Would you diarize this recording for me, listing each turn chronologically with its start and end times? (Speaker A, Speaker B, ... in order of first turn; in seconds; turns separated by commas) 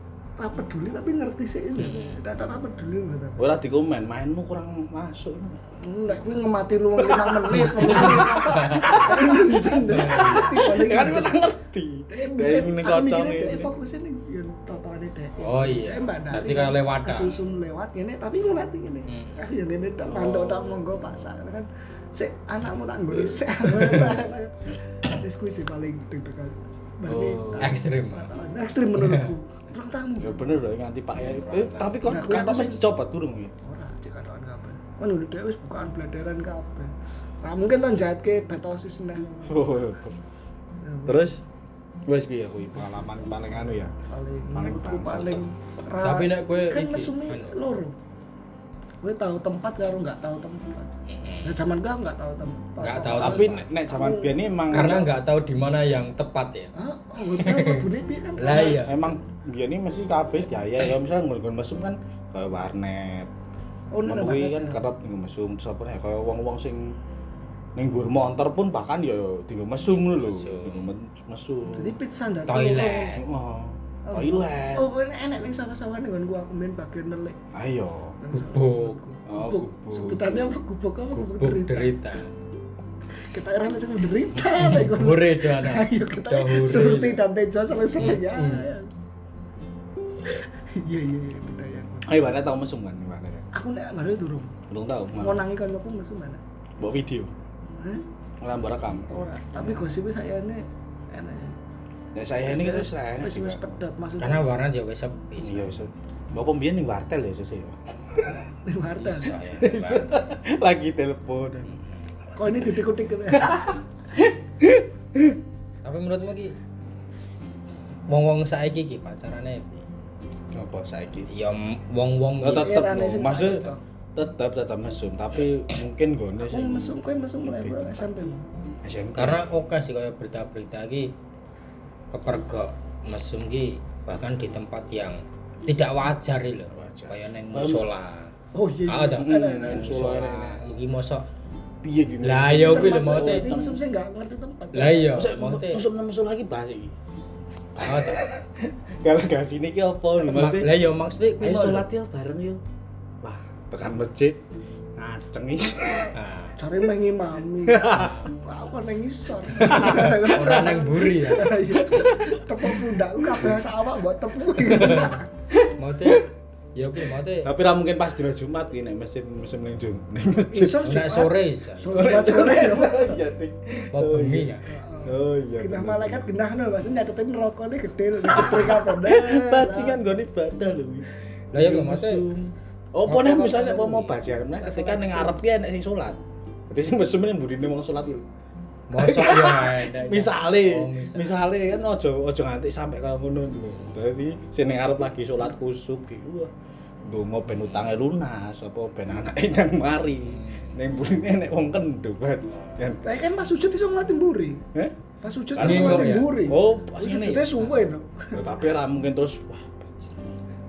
Speaker A: 0.4-3.5, Speaker B: 1.8-2.2, Speaker C: 3.4-5.6, Speaker A: 5.8-11.4, Speaker C: 7.0-9.4, Speaker B: 7.5-10.8, Speaker C: 9.9-13.7, Speaker A: 12.1-30.4, Speaker B: 15.4-17.3, Speaker B: 19.1-19.4, Speaker C: 20.0-20.8, Speaker B: 23.7-24.1, Speaker C: 27.1-27.8, Speaker B: 27.6-28.3, Speaker B: 28.9-29.3, Speaker C: 30.2-33.5, Speaker B: 31.2-31.9, Speaker A: 32.1-32.8, Speaker A: 33.6-36.9, Speaker A: 37.4-39.7, Speaker C: 39.5-40.2, Speaker A: 40.8-41.2, Speaker C: 41.1-41.4, Speaker C: 42.1-43.9, Speaker A: 44.1-48.0, Speaker C: 44.5-45.5, Speaker B: 46.0-47.5, Speaker A: 49.0-50.9, Speaker B: 51.1-51.6, Speaker A: 51.4-55.1, Speaker B: 52.8-53.6, Speaker C: 53.2-55.1, Speaker B: 54.7-56.7, Speaker A: 56.8-59.2, Speaker B: 57.3-57.8, Speaker B: 58.4-59.0, Speaker C: 58.8-63.3, Speaker A: 63.9-64.8, Speaker C: 64.0-67.0, Speaker C: 67.8-72.0, Speaker B: 69.9-70.9, Speaker A: 71.7-73.2, Speaker B: 72.5-73.2, Speaker C: 73.2-74.9, Speaker A: 74.0-77.4, Speaker C: 77.5-78.2, Speaker A: 78.2-81.9, Speaker B: 78.3-79.0, Speaker C: 79.3-80.5, Speaker B: 81.1-82.3, Speaker A: 83.2-88.9, Speaker B: 84.4-87.2, Speaker B: 88.0-88.7, Speaker A: 90.2-92.3, Speaker C: 92.0-93.4, Speaker A: 93.5-94.5, Speaker C: 94.7-95.4, Speaker A: 95.2-96.4, Speaker C: 96.8-97.3, Speaker C: 98.4-99.2, Speaker A: 99.1-101.5, Speaker C: 102.1-103.6, Speaker A: 102.5-104.5, Speaker B: 104.2-105.8, Speaker C: 105.4-108.4, Speaker A: 108.6-109.3, Speaker B: 109.0-110.1, Speaker C: 109.6-111.8, Speaker A: 112.3-113.6, Speaker C: 113.3-115.4, Speaker B: 115.8-116.5, Speaker B: 118.1-119.8, Speaker C: 120.5-121.3, Speaker B: 121.3-123.0, Speaker C: 122.4-128.1, Speaker A: 122.5-123.8, Speaker A: 126.4-128.4, Speaker C: 128.8-129.4, Speaker B: 129.2-131.1, Speaker B: 132.1-138.3, Speaker C: 136.7-137.8, Speaker A: 138.5-140.2, Speaker B: 138.9-141.3, Speaker C: 139.2-140.7, Speaker C: 141.8-143.8, Speaker B: 142.2-143.5, Speaker A: 142.5-145.2, Speaker B: 144.7-145.8, Speaker C: 145.1-146.9, Speaker C: 147.8-150.8, Speaker B: 147.8-148.3, Speaker B: 150.2-151.9, Speaker C: 151.4-152.6, Speaker C: 153.2-154.4, Speaker C: 155.0-156.1, Speaker B: 156.1-156.5, Speaker A: 156.6-165.3, Speaker C: 157.6-158.2, Speaker C: 159.6-160.7, Speaker B: 159.6-161.6, Speaker C: 161.8-163.6, Speaker B: 164.6-165.2, Speaker C: 165.5-166.2, Speaker B: 165.8-167.5, Speaker C: 167.4-171.0, Speaker A: 170.5-173.2, Speaker B: 170.8-172.1, Speaker C: 171.9-176.2, Speaker B: 173.9-174.6, Speaker A: 174.6-180.0, Speaker C: 178.3-188.2, Speaker B: 181.5-182.2, Speaker B: 183.0-184.2, Speaker A: 184.5-185.4, Speaker B: 188.9-191.4, Speaker C: 188.9-196.5, Speaker C: 197.0-203.0, Speaker B: 197.5-197.9, Speaker B: 200.2-200.8, Speaker A: 203.0-204.6, Speaker A: 205.2-208.4, Speaker C: 205.5-207.7, Speaker B: 205.6-206.3, Speaker C: 208.3-210.4